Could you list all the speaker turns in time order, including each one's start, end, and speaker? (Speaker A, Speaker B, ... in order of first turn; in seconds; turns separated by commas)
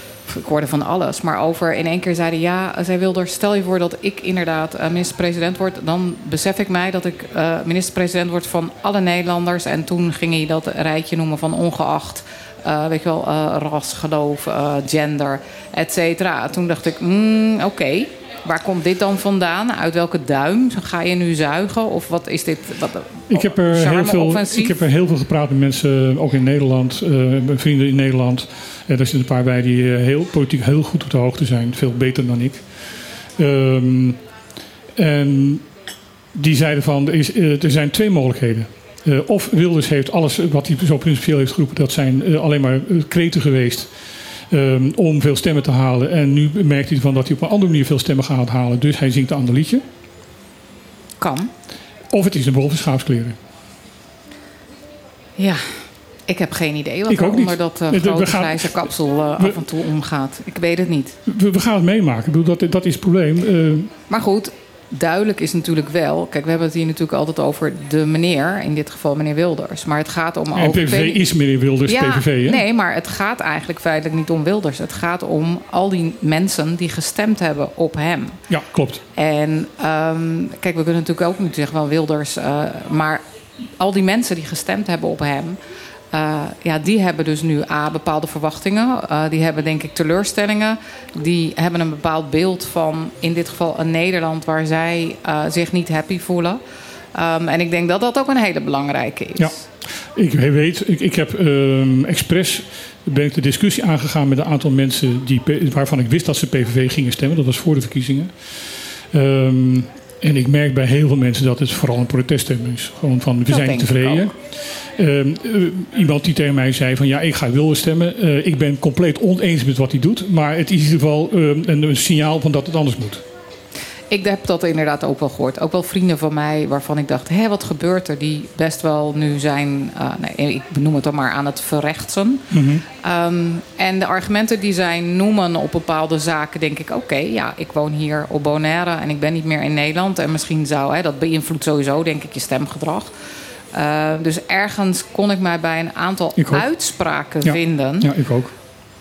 Speaker A: 0.3-24.8, Speaker B: 23.3-32.9, Speaker B: 33.4-34.2, Speaker B: 35.0-35.6, Speaker B: 36.3-43.9, Speaker B: 44.5-49.8, Speaker A: 51.2-51.5, Speaker B: 52.1-53.4, Speaker A: 55.4-61.2, Speaker B: 57.1-59.6, Speaker B: 61.3-63.9, Speaker A: 64.1-71.3, Speaker B: 70.5-72.6, Speaker A: 71.8-78.4, Speaker B: 78.5-79.0, Speaker A: 79.2-83.2, Speaker A: 83.8-85.6, Speaker A: 86.1-96.6, Speaker A: 97.1-99.6, Speaker B: 99.4-114.3, Speaker A: 113.5-114.3, Speaker B: 114.9-123.2, Speaker A: 124.1-143.1, Speaker B: 132.5-132.8, Speaker A: 143.7-148.1, Speaker B: 146.4-146.6, Speaker B: 147.4-148.5